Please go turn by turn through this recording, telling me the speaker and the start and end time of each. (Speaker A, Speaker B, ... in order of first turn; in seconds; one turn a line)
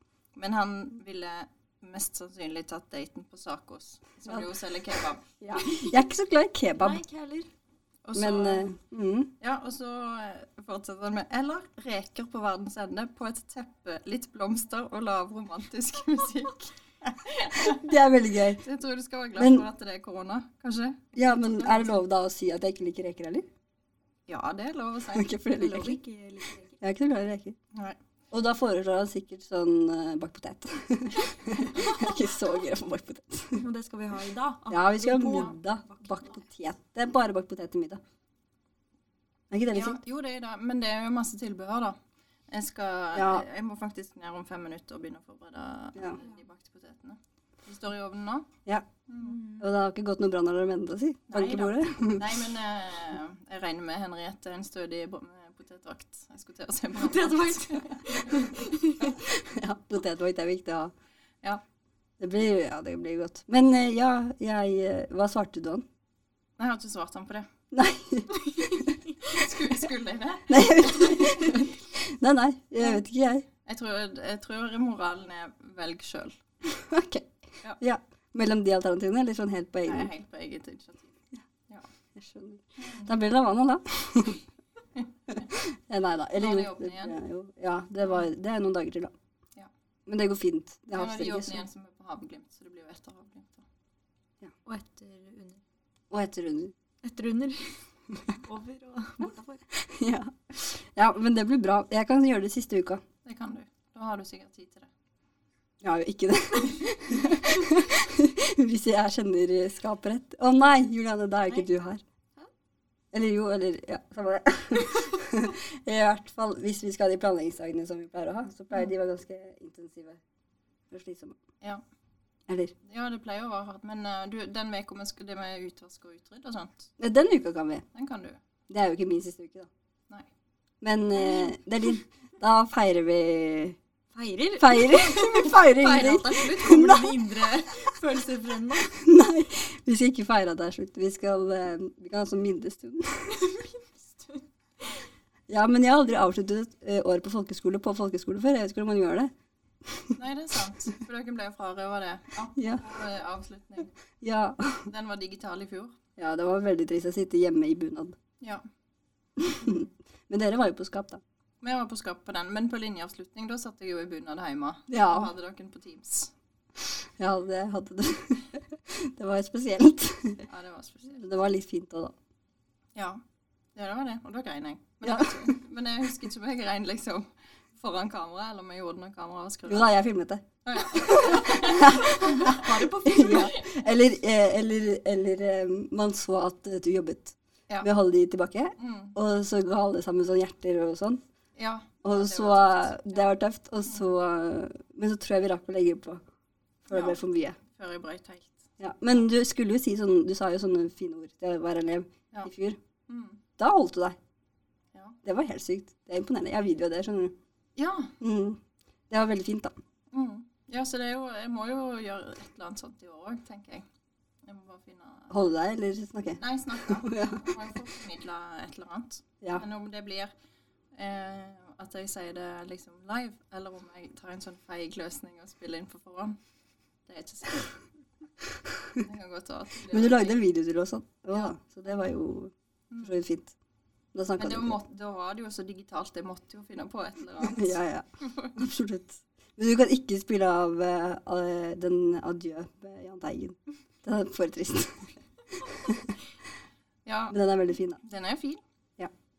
Speaker A: 0.3-5.2
Speaker B: 5.4-7.0
Speaker C: 6.8-7.5
Speaker A: 8.0-8.7
Speaker B: 8.1-9.3
Speaker A: 9.4-17.8
Speaker B: 17.6-18.6
Speaker A: 18.6-22.0
Speaker B: 19.4-19.6
Speaker B: 21.1-23.5
Speaker A: 24.3-25.3
Speaker B: 25.1-26.0
Speaker C: 25.6-26.7
Speaker B: 26.8-27.6
Speaker B: 28.3-33.6
Speaker C: 33.5-36.3
Speaker B: 34.7-38.0
Speaker B: 39.5-40.0
Speaker A: 39.7-42.0
Speaker A: 42.5-48.5
Speaker B: 43.1-43.4
Speaker A: 49.1-49.4
Speaker C: 49.2-49.6
Speaker B: 49.6-52.4
Speaker A: 51.3-58.5
Speaker C: 57.0-59.1
Speaker B: 59.2-60.9
Speaker B: 62.2-65.8
Speaker A: 66.6-67.5
Speaker B: 67.7-68.9
Speaker A: 69.2-71.5
Speaker B: 70.5-73.5
Speaker A: 73.7-76.4
Speaker B: 76.7-77.3
Speaker B: 77.8-80.1
Speaker A: 79.8-81.1
Speaker B: 82.1-84.4
Speaker A: 85.0-85.4
Speaker B: 85.4-89.1
Speaker A: 86.3-87.2
Speaker B: 90.1-91.6
Speaker A: 90.9-93.6
Speaker C: 94.7-95.6
Speaker B: 96.1-96.7
Speaker C: 97.0-97.8
Speaker C: 98.3-99.6
Speaker B: 99.8-103.0
Speaker A: 103.2-104.9
Speaker B: 105.8-112.0
Speaker B: 113.1-120.2
Speaker B: 120.9-121.4
Speaker B: 122.5-122.7
Speaker A: 122.8-126.9
Speaker B: 127.0-127.8
Speaker A: 127.9-128.4
Speaker B: 128.7-129.7
Speaker B: 130.8-133.8
Speaker C: 131.2-131.4
Speaker C: 134.1-139.0
Speaker B: 134.6-137.5
Speaker B: 138.9-143.4
Speaker C: 143.3-144.4
Speaker B: 145.5-149.3
Speaker B: 149.8-150.1
Speaker A: 150.2-153.9
Speaker B: 152.6-152.8
Speaker B: 154.2-154.9
Speaker A: 154.8-155.9
Speaker B: 156.2-158.2
Speaker B: 159.4-161.2
Speaker A: 161.6-166.3
Speaker B: 164.9-165.3
Speaker B: 167.2-170.4
Speaker A: 170.4-171.3
Speaker B: 171.2-172.1
Speaker A: 172.9-173.2
Speaker A: 173.7-179.9
Speaker B: 175.0-175.5
Speaker B: 179.7-191.2
Speaker A: 180.6-182.6
Speaker C: 181.5-183.7
Speaker A: 183.2-183.7
Speaker A: 188.8-189.1
Speaker A: 191.6-193.3
Speaker B: 192.0-196.2
Speaker B: 196.8-197.6
Speaker A: 196.9-198.7
Speaker B: 198.8-202.8
Speaker A: 203.1-203.4
Speaker B: 203.6-204.2
Speaker B: 205.2-207.3
Speaker A: 207.8-208.1
Speaker B: 208.2-209.7
Speaker A: 210.1-213.8
Speaker A: 214.4-215.4
Speaker B: 215.3-217.4
Speaker A: 216.4-220.3
Speaker A: 220.9-226.4
Speaker A: 227.1-227.7
Speaker A: 228.9-230.4
Speaker B: 229.9-233.5
Speaker A: 232.9-233.2
Speaker B: 234.1-234.8
Speaker A: 234.4-238.5
Speaker B: 237.4-245.1
Speaker B: 245.7-246.0
Speaker A: 247.1-247.4
Speaker B: 247.3-248.0
Speaker A: 248.0-248.6